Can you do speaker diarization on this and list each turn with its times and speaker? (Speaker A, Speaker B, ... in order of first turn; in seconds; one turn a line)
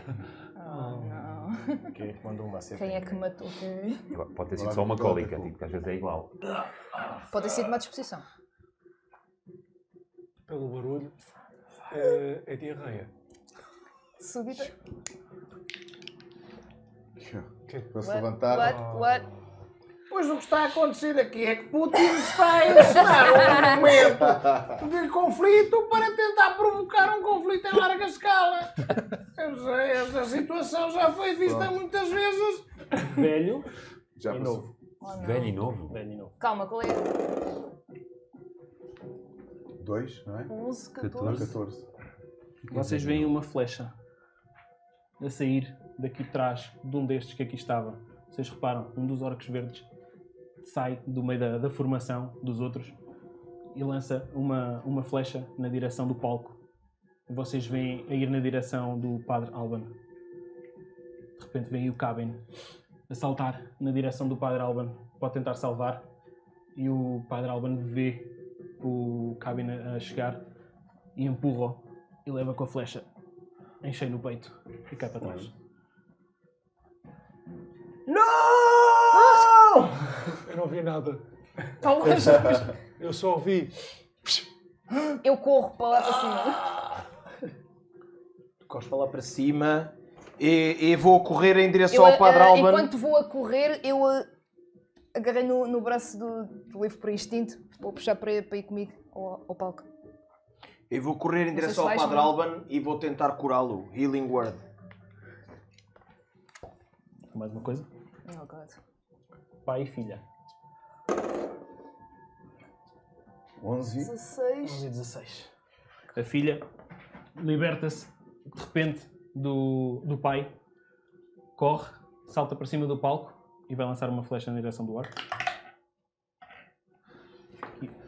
Speaker A: 0.6-1.9
Speaker B: 0.6-1.5
Speaker C: 1.9-3.2
Speaker A: 2.8-4.1
Speaker D: 4.1-6.3
Speaker E: 4.5-5.5
Speaker A: 7.3-8.3
Speaker B: 10.5-11.2
Speaker B: 11.9-13.1
Speaker A: 14.2-14.8
Speaker E: 17.2-18.9
Speaker B: 17.7-19.3
Speaker A: 18.0-19.3
Speaker C: 20.1-32.6
Speaker A: 23.2-23.7
Speaker E: 23.6-24.8
Speaker E: 31.4-31.8
Speaker F: 33.0-33.7
Speaker E: 34.2-34.7
Speaker F: 34.3-34.7
Speaker A: 35.0-35.6
Speaker D: 35.1-36.0
Speaker F: 35.9-36.4
Speaker A: 36.4-37.1
Speaker E: 39.8-40.5
Speaker A: 40.5-41.5
Speaker D: 41.0-41.5
Speaker E: 41.2-41.9
Speaker D: 42.7-43.4
Speaker F: 42.7-43.9
Speaker F: 45.2-49.9
Speaker F: 50.6-53.0
Speaker F: 53.7-56.6
Speaker F: 57.3-59.9
Speaker F: 61.4-62.4
Speaker F: 63.1-66.0
Speaker F: 66.8-70.4
Speaker F: 71.2-73.1
Speaker F: 73.8-75.5
Speaker C: 78.1-80.1
Speaker A: 79.1-79.5
Speaker B: 80.5-81.2
Speaker A: 81.8-82.7
Speaker B: 82.0-84.5
Speaker A: 85.1-86.7
Speaker C: 88.7-92.9
Speaker A: 91.9-94.3
Speaker A: 95.1-99.9
Speaker C: 100.9-104.6
Speaker A: 101.5-102.4
Speaker F: 107.3-107.9
Speaker A: 108.3-108.8
Speaker F: 109.7-110.2
Speaker E: 113.6-114.1
Speaker A: 114.0-114.9
Speaker F: 114.6-115.5
Speaker F: 116.1-116.6
Speaker F: 117.4-120.5
Speaker F: 121.6-125.1